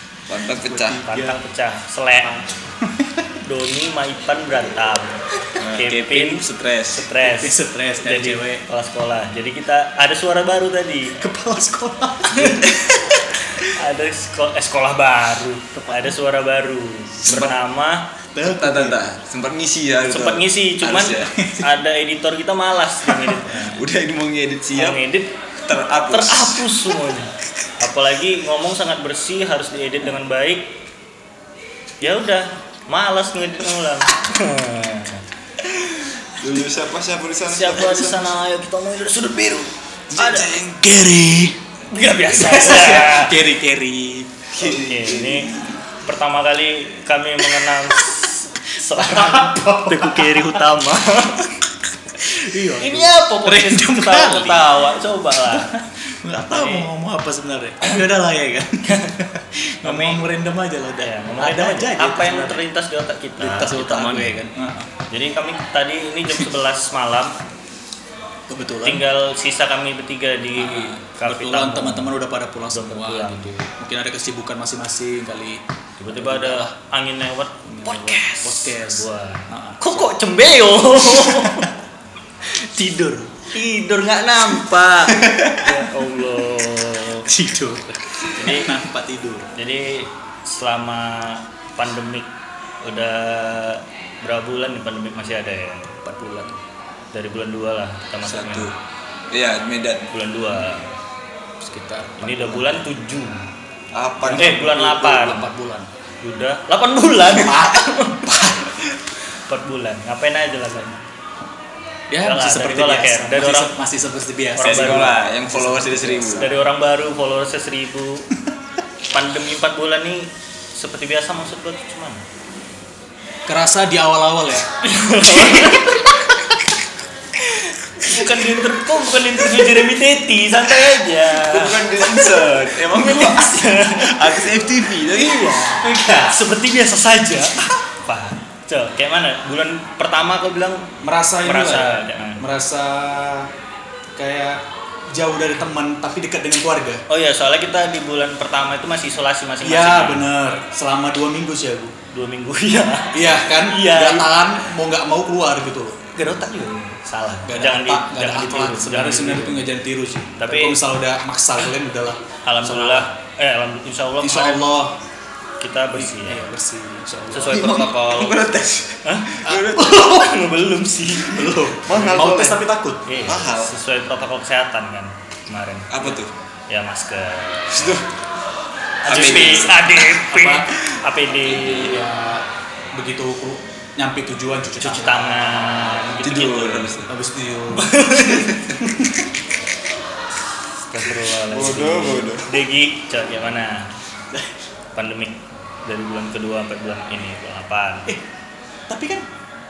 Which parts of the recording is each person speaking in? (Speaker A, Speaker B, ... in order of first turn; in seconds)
Speaker A: 0.3-1.0, 5.6-7.1, 17.2-17.6, 18.4-21.3, 23.6-25.0, 25.6-26.8, 35.6-38.3, 40.1-41.0, 44.5-45.8, 85.2-85.6, 98.2-98.7, 99.3-100.1, 103.9-104.9, 114.6-116.5, 131.4-135.7, 167.4-170.2, 171.8-172.6, 173.2-173.7, 175.9-176.3, 177.7-178.1, 179.1-179.9, 180.9-181.9, 186.2-187.1, 188.1-188.8, 191.3-192.6
Speaker B: 0.6-1.4, 2.2-3.1, 7.2-8.6, 11.2-12.8, 15.8-16.1, 18.3-19.1, 21.3-21.7, 23.1-23.6, 40.8-41.5, 42.3-44.3, 47.6-47.9, 49.0-50.6, 52.2-54.8, 55.5-62.6, 63.4-64.9, 68.5-69.0, 70.6-76.7, 77.7-80.2, 81.0-81.7, 82.5-83.4, 85.8-86.1, 87.3-89.5, 96.0-96.6, 101.6-102.9, 104.2-105.9, 107.3-108.8, 110.7-110.9, 112.1-116.6, 123.5-124.7, 125.3-125.8, 128.4-128.7, 129.4-129.8, 132.1-132.4, 135.8-136.4, 141.0-143.5, 144.2-144.6, 145.1-147.0, 149.6-151.9, 153.1-156.0, 157.4-163.1, 164.2-165.0, 165.9-167.9, 169.4-170.4, 171.1-173.1, 179.1-180.7, 181.8-185.9, 187.1-188.1, 188.7-189.3, 198.9-199.2
Speaker C: 1.1-2.4, 3.4-5.2, 5.7-11.2, 12.3-12.7, 13.6-18.1, 20.1-23.8, 24.7-25.3, 26.1-30.7, 32.0-35.2, 37.5-40.5, 41.9-43.4, 44.6-45.5, 46.0-51.6, 52.8-55.8, 56.3-56.9, 58.9-59.2, 59.8-60.3, 61.0-64.4, 65.1-67.3, 68.8-72.1, 72.7-73.5, 76.0-81.7, 83.4-87.2, 88.3-88.7, 89.5-92.3, 92.8-96.0, 97.1-98.7, 100.1-100.9, 102.2-103.4, 104.4-105.5, 106.2-108.4, 109.5-110.9, 112.2-113.7, 114.5-115.2, 116.3-118.3, 119.1-122.2, 124.8-126.4, 128.0-132.3, 132.9-134.5, 135.0-140.9, 141.4-142.4, 147.1-150.2, 152.1-154.4, 156.1-159.7, 160.4-160.8, 162.4-164.7, 165.6-166.4, 167.3-168.3, 169.0-171.5, 173.1-178.0, 179.0-182.0, 184.8-187.0, 187.7-188.6, 190.9-193.9, 194.9-198.1